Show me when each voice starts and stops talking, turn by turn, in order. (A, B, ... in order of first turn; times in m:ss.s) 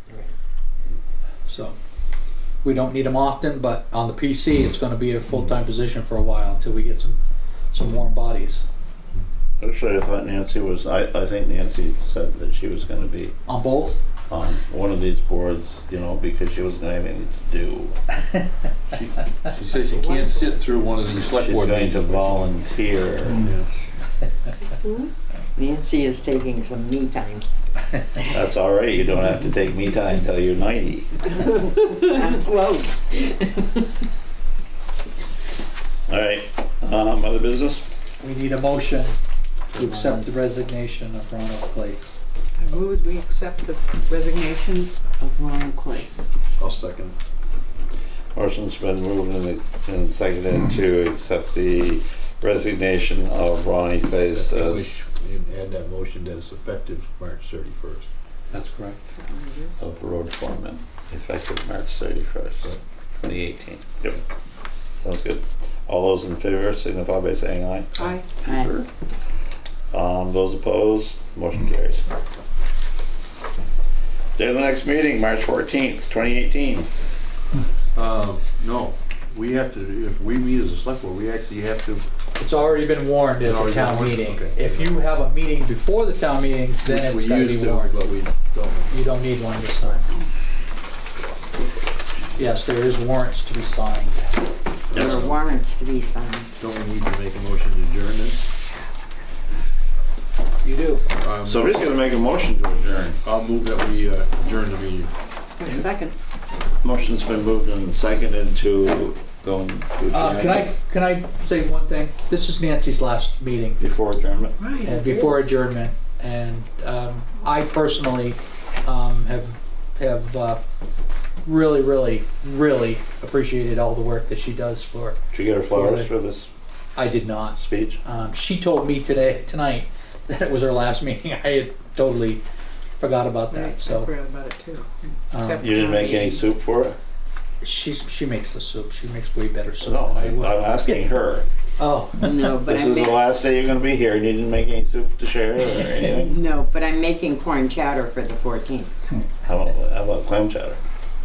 0:01.5-0:01.7 A
0:02.6-0:07.2 A
0:07.7-0:08.6 A
0:09.6-0:13.3 B
0:13.5-0:14.0 A
0:14.3-0:18.0 B
0:18.9-0:22.5 C
0:20.0-0:20.8 D
0:21.3-0:23.5 B
0:23.4-0:23.7 C
0:24.9-0:27.5 E
0:28.3-0:31.3 B
0:31.4-0:33.8 E
0:36.1-0:37.8 B
0:38.2-0:39.2 A
0:39.7-0:42.1 A
0:42.6-0:44.9 D
0:45.2-0:46.3 E
0:46.6-0:47.2 C
0:48.4-0:55.0 B
0:54.3-0:58.1 C
0:58.5-0:59.0 A
0:59.4-0:59.8 D
0:59.8-1:04.2 B
1:05.0-1:08.8 B
1:08.0-1:08.3 D
1:08.4-1:08.7 E
1:09.9-1:12.0 B
1:14.4-1:16.9 B
1:18.0-1:22.0 C
1:22.4-1:28.0 A
1:23.4-1:25.1 C
1:26.8-1:29.0 C
1:28.9-1:30.0 A
1:32.4-1:34.5 A
1:34.9-1:35.4 C
1:34.9-1:35.2 B
1:34.9-1:36.5 E
1:36.6-1:38.5 C
1:40.6-1:41.0 A
1:41.2-1:41.7 C
1:41.4-1:43.2 B
1:43.2-1:45.1 C
1:45.6-1:46.1 D
1:46.8-1:50.6 B
1:50.1-1:53.8 A
1:50.1-1:50.6 C
1:53.8-1:54.6 B
1:54.6-1:55.0 D
1:54.8-2:00.6 A
2:01.4-2:06.1 A
2:05.3-2:06.5 B
2:07.0-2:12.4 A
2:07.6-2:08.0 B
2:13.0-2:14.1 A
2:13.5-2:16.4 D
2:15.3-2:15.6 A
2:15.6-2:17.0 B
2:17.6-2:21.0 A
2:19.8-2:21.5 B
2:21.8-2:22.4 A
2:22.2-2:23.3 E
2:22.6-2:26.4 B
2:26.0-2:28.9 E
2:29.4-2:30.8 B